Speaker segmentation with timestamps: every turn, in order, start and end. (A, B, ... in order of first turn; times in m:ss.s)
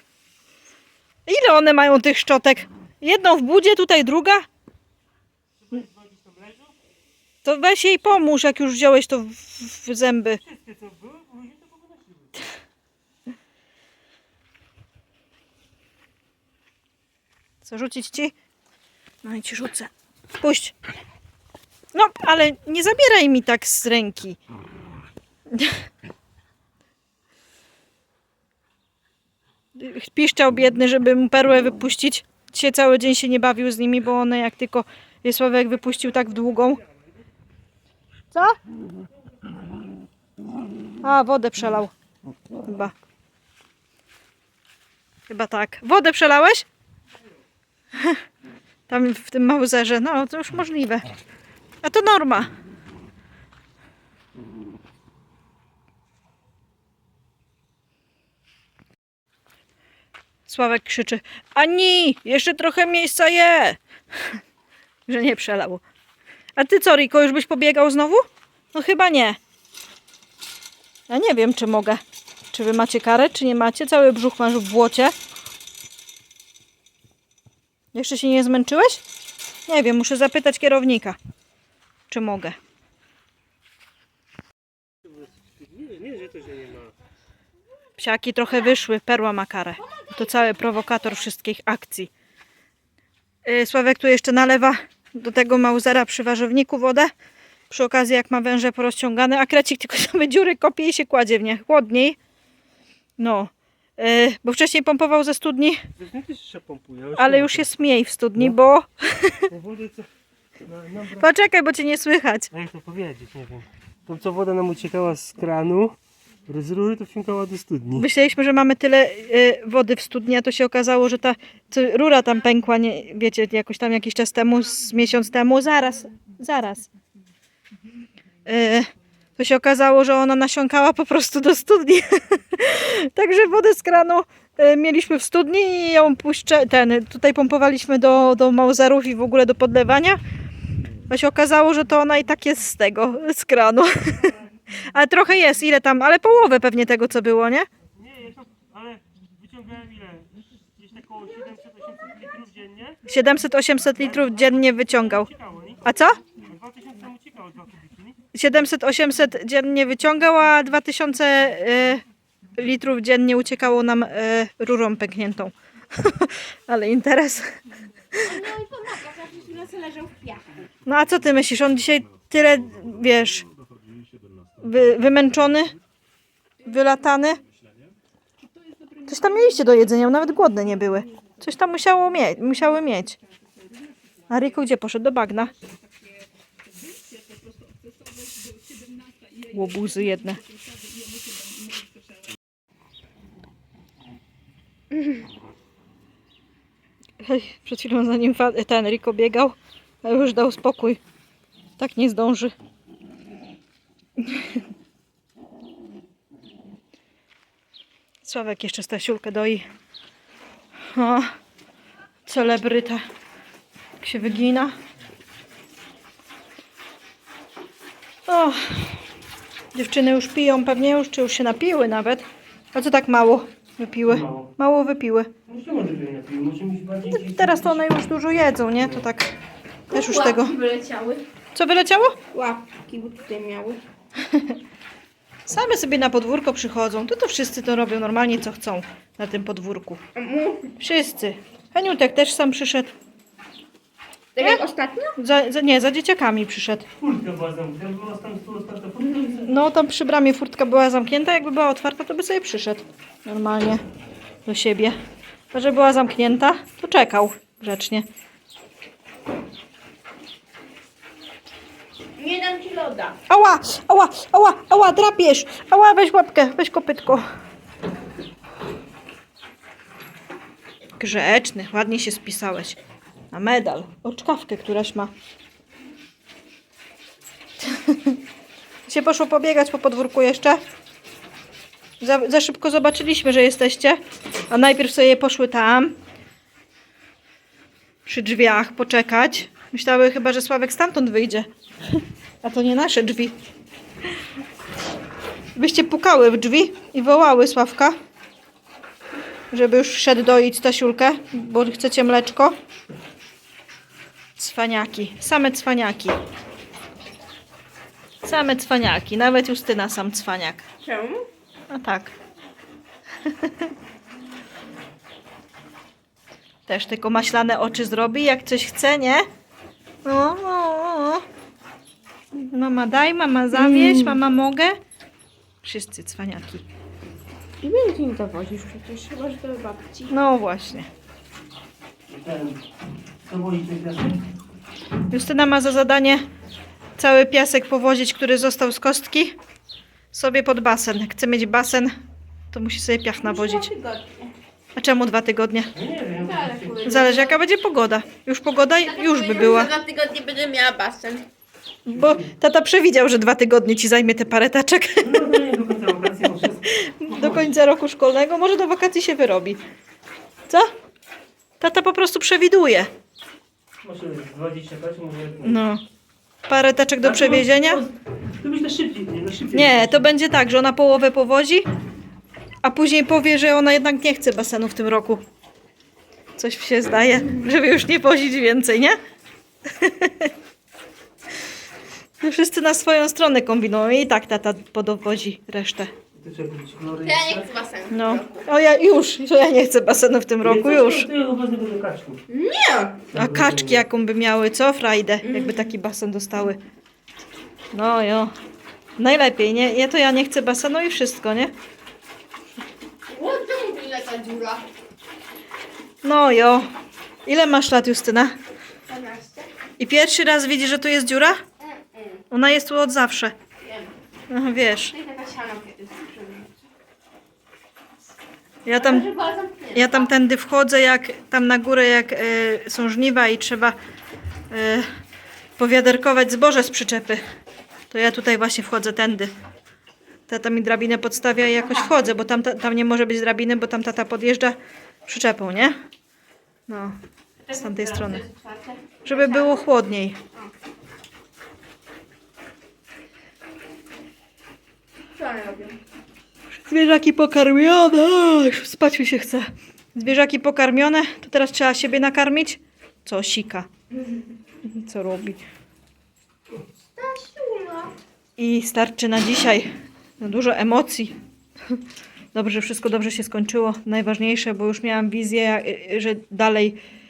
0:01.2-0:04.4 A
0:05.6-0:06.8 B
0:07.4-0:10.4 A
0:10.4-0:12.4 B
0:17.6-0:18.3 A
0:19.2-0:20.7 A
0:21.9-0:24.4 A
0:25.5-0:25.8 A
0:29.7-0:36.8 A
0:38.3-0:38.6 A
0:41.0-0:41.9 A
0:42.6-0:42.9 A
0:45.3-0:46.6 A
0:47.9-0:48.2 A
0:48.9-0:51.1 A
0:51.8-0:52.5 A
1:00.5-1:04.3 A
1:05.1-1:05.8 A
1:06.6-1:09.4 A
1:11.1-1:15.1 A
1:17.9-1:19.0 A
1:19.7-1:21.2 A
1:22.1-1:22.6 A
1:25.0-1:26.9 B
1:28.0-1:32.1 A
1:33.4-1:37.1 A
1:37.7-1:42.2 A
1:43.2-1:45.8 A
1:46.0-1:47.7 B
1:47.2-1:49.5 A
1:49.5-1:50.1 B
1:50.6-1:51.3 B
1:51.2-1:52.5 A
1:52.5-1:56.0 B
1:56.5-1:58.1 B
1:58.0-2:06.9 A
2:08.4-2:20.2 A
2:21.1-2:27.7 A
2:27.9-2:33.0 B
2:33.0-2:35.3 A
2:34.0-2:38.2 B
2:35.8-2:36.2 A
2:38.3-2:42.0 A
2:42.6-2:47.6 A
2:48.1-2:48.4 A
2:48.2-2:50.6 C
2:50.8-2:53.4 A
2:54.6-2:55.8 A
2:56.6-2:57.4 A
2:58.7-2:59.4 C
2:59.1-3:03.2 A
3:04.3-3:05.5 A
3:06.8-3:12.0 C
3:09.5-3:10.4 A
3:17.2-3:21.0 A
3:21.8-3:22.5 A
3:24.2-3:24.6 A
3:28.2-3:29.7 A
3:30.9-3:31.3 A
3:32.2-3:33.0 A
3:34.0-3:34.8 A
3:38.3-3:39.0 A
3:39.7-3:45.3 A
3:44.0-3:44.5 B
3:45.5-3:47.9 B
3:47.1-3:49.3 A
3:49.9-3:50.6 A
3:49.9-3:51.2 C
3:51.5-3:52.2 A
3:52.3-3:53.8 C
3:54.2-3:54.6 A
3:55.5-4:00.0 A
4:00.1-4:00.7 C
4:00.8-4:02.9 A
4:04.3-4:05.2 C
4:05.2-4:06.9 A
4:07.0-4:09.6 B
4:09.4-4:13.8 A
4:14.4-4:15.0 A
4:15.5-4:18.0 A
4:22.2-4:23.2 C
4:23.3-4:27.2 A
4:31.0-4:32.8 A
4:33.3-4:35.1 A
4:37.6-4:38.2 A
4:38.9-4:40.6 A
4:42.0-4:44.0 A
4:44.5-4:45.9 A
4:48.0-4:51.5 A
4:52.4-4:53.3 A
4:55.6-4:58.0 A
4:59.5-5:02.6 A
5:04.4-5:06.2 A
5:08.2-5:10.6 A
5:10.8-5:11.2 C
5:11.7-5:12.1 A
5:13.2-5:13.7 A
5:16.7-5:19.2 A
5:20.0-5:21.2 A
5:22.4-5:24.8 A
5:23.5-5:24.2 C
5:25.6-5:26.6 A
5:27.6-5:30.1 C
5:30.1-5:30.9 A
5:32.1-5:32.6 B
5:33.2-5:34.2 B
5:35.1-5:36.2 A
5:37.0-5:39.4 A
5:40.1-5:41.9 A
5:42.5-5:43.7 A
5:43.2-5:44.3 C
5:44.8-5:45.7 A
5:45.7-5:46.9 B
5:46.2-5:47.4 C
5:46.8-5:49.7 A
5:48.8-5:51.2 C
5:51.8-5:55.4 A
5:51.9-5:52.3 B
5:55.0-5:57.5 B
5:56.6-5:59.6 A
6:01.6-6:02.9 A
6:03.8-6:05.6 B
6:05.4-6:05.8 A
6:06.5-6:07.8 A
6:07.0-6:10.1 B
6:09.5-6:11.6 A
6:12.6-6:15.2 A
6:16.4-6:19.0 A
6:19.7-6:20.3 A
6:22.2-6:25.9 A
6:26.1-6:27.5 B
6:27.0-6:28.4 C
6:27.9-6:31.1 A
6:30.4-6:32.2 B
6:32.3-6:33.0 C
6:33.1-6:33.8 B
6:33.1-6:36.6 A
6:35.2-6:35.7 C
6:37.7-6:38.3 A
6:39.0-6:41.5 A
6:43.1-6:44.6 C
6:46.0-6:46.7 A
6:47.2-6:48.4 A
6:48.8-6:49.5 C
6:49.8-6:51.4 A
6:51.6-6:52.2 C
6:52.3-6:53.3 A
6:53.6-6:53.9 C
6:54.3-6:54.9 A
6:54.9-6:56.5 C
6:58.6-6:59.1 A
6:58.7-7:00.1 C
6:59.7-7:03.7 A
7:04.5-7:04.9 A
7:05.6-7:07.2 A
7:07.9-7:09.3 A
7:10.3-7:15.8 A
7:11.6-7:11.9 C
7:16.7-7:16.9 A
7:17.4-7:19.6 C
7:17.5-7:18.2 A
7:19.0-7:20.2 A
7:25.1-7:25.8 C
7:26.6-7:33.7 A
7:34.6-7:35.4 A
7:36.9-7:37.9 C
7:38.4-7:41.1 A
7:42.3-7:46.8 A